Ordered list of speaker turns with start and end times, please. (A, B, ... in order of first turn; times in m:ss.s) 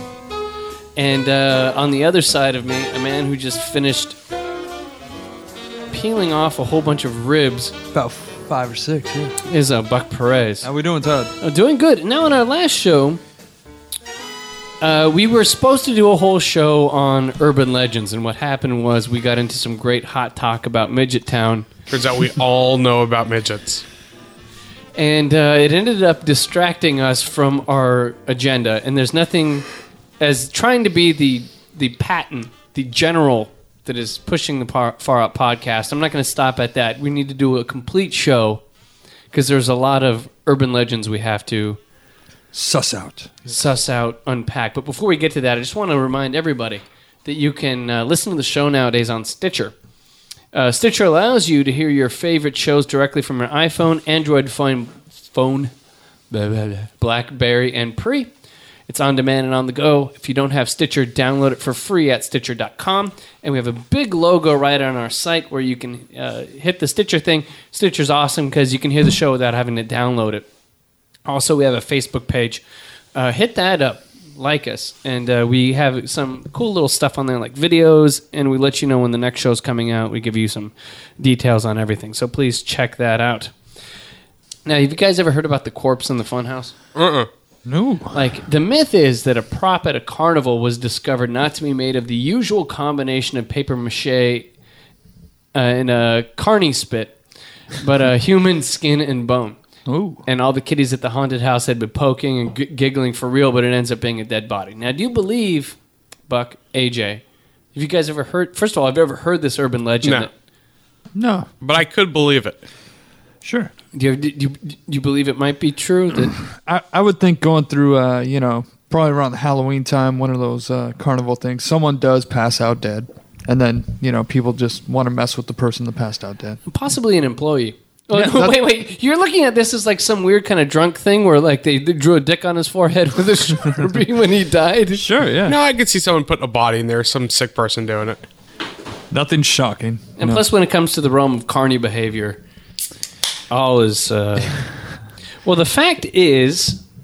0:01.0-0:04.2 A
0:05.9-0:07.7 A
0:07.9-0:09.3 B
0:09.5-0:10.7 A
0:10.6-0:11.3 B
0:11.4-0:13.2 A
0:14.8-0:21.7 A
0:21.9-0:23.8 C
0:24.9-0:29.7 A
0:30.2-0:38.6 A
0:39.3-0:41.8 A
0:42.5-0:43.5 B
0:43.5-0:49.7 A
0:50.5-0:55.7 A
0:56.3-0:58.3 A
0:58.9-1:10.5 A
1:11.2-1:12.6 A
1:13.1-1:23.5 A
1:24.6-1:26.8 A
1:26.9-1:27.3 C
1:27.6-1:28.3 B
1:28.1-1:34.5 A
1:35.5-1:37.2 A
1:37.8-1:39.6 A
1:39.9-1:40.2 B
1:40.2-1:47.2 A
1:47.7-1:50.3 A
1:51.1-1:51.5 B
1:51.6-1:52.6 C
1:53.4-1:53.7 B
1:53.9-1:56.4 A
1:56.4-2:06.6 B
2:06.7-2:15.0 A
2:08.1-2:08.5 B
2:14.9-2:15.6 B
2:15.4-2:18.2 C
2:19.1-2:20.4 B
2:20.2-2:22.4 A
2:23.5-2:24.8 A
2:25.4-2:26.8 A